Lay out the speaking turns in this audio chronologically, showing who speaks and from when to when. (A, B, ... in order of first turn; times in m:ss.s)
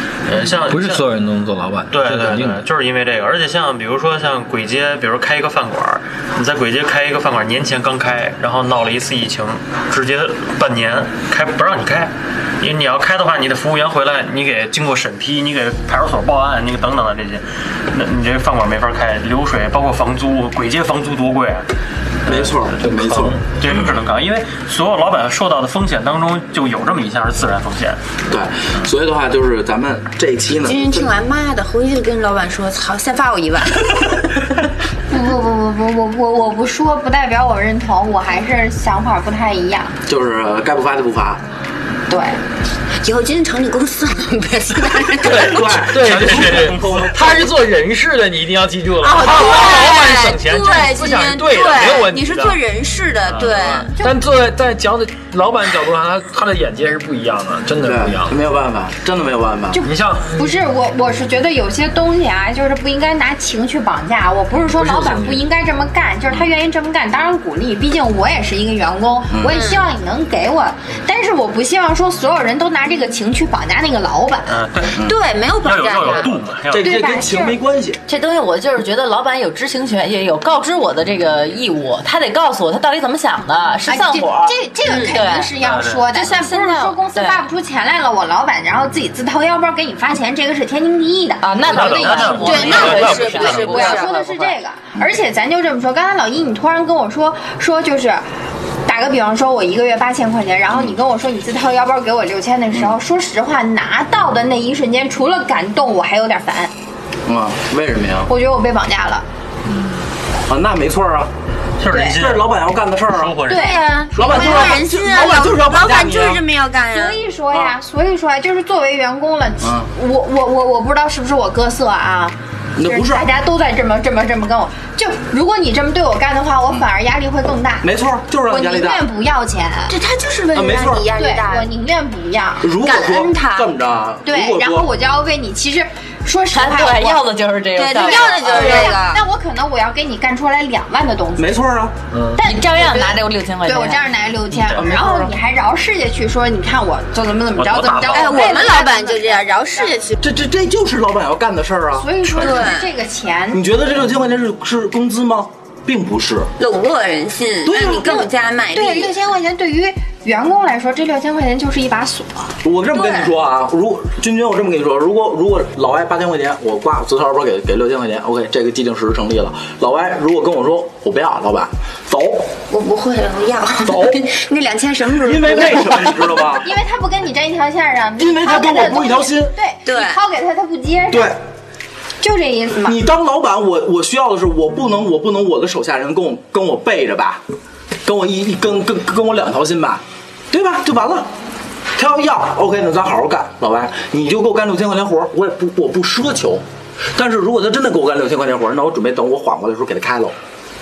0:00.2-0:01.0 A
0:00.3-0:02.6 B
0:01.9-0:21.6 A
0:22.3-0:23.4 C
0:22.3-0:23.4 B
0:23.6-0:28.0 A
0:28.3-0:31.1 C
0:30.5-0:34.2 D
0:35.1-0:40.0 E
0:40.1-0:41.4 C
0:42.1-0:42.4 E
0:43.0-0:46.0 D
0:45.2-0:47.4 C
0:45.8-0:52.6 B
0:46.4-0:46.7 A
0:49.0-0:53.9 D
0:53.3-0:58.4 B
0:57.8-0:59.8 C
0:59.7-1:14.6 E
0:59.8-1:00.5 B
1:04.5-1:05.4 B
1:09.4-1:09.9 D
1:14.4-1:15.1 A
1:15.0-1:16.3 D
1:15.6-1:17.0 A
1:16.7-1:18.0 C
1:16.8-1:17.6 E
1:18.1-1:25.6 F
1:23.9-1:38.2 E
1:24.8-1:25.2 D
1:25.6-1:26.0 A
1:26.1-1:27.4 F
1:31.4-1:34.5 F
1:31.6-1:33.2 B
1:31.8-1:33.7 A
1:32.4-1:34.1 D
1:38.8-1:46.7 E
1:42.7-1:43.0 C
1:47.3-1:48.3 C
1:48.3-1:49.2 E
1:50.5-1:51.3 C
1:51.8-1:53.8 A
1:51.9-1:52.2 E
1:52.0-1:53.4 C
1:53.5-1:54.8 E
1:53.5-1:57.2 D
1:54.1-1:56.4 C
1:56.9-2:07.9 E
1:59.6-1:59.9 C
2:02.8-2:03.3 C
2:07.8-2:09.0 C
2:08.5-2:10.0 E
2:09.9-2:11.7 D
2:10.5-2:11.1 C
2:11.1-2:12.8 E
2:12.6-2:14.9 C
2:12.8-2:13.7 D
2:14.2-2:17.2 E
2:16.5-2:18.8 F
2:17.7-2:19.2 D
2:17.9-2:21.6 E
2:21.4-2:21.9 C
2:22.1-2:22.4 B
2:22.4-2:24.0 F
2:22.4-2:30.0 E
2:24.8-2:25.2 C
2:24.9-2:25.2 F
2:27.6-2:28.4 A
2:28.1-2:30.2 D
2:30.2-2:32.1 C
2:32.0-2:33.6 E
2:32.4-2:32.9 D
2:33.5-2:36.5 C
2:36.6-2:39.1 D
2:37.6-2:38.2 C
2:37.9-2:42.5 E
2:42.6-2:52.5 C
2:42.9-2:43.4 D
2:52.7-2:56.3 D
2:53.8-2:54.3 C
2:55.2-2:56.7 C
2:56.6-3:01.3 E
2:58.2-2:59.5 C
2:59.8-3:00.2 D
3:01.1-3:01.4 C
3:02.2-3:03.0 E
3:02.8-3:07.4 C
3:08.0-3:11.3 C
3:12.0-3:16.6 C
3:17.2-3:20.4 C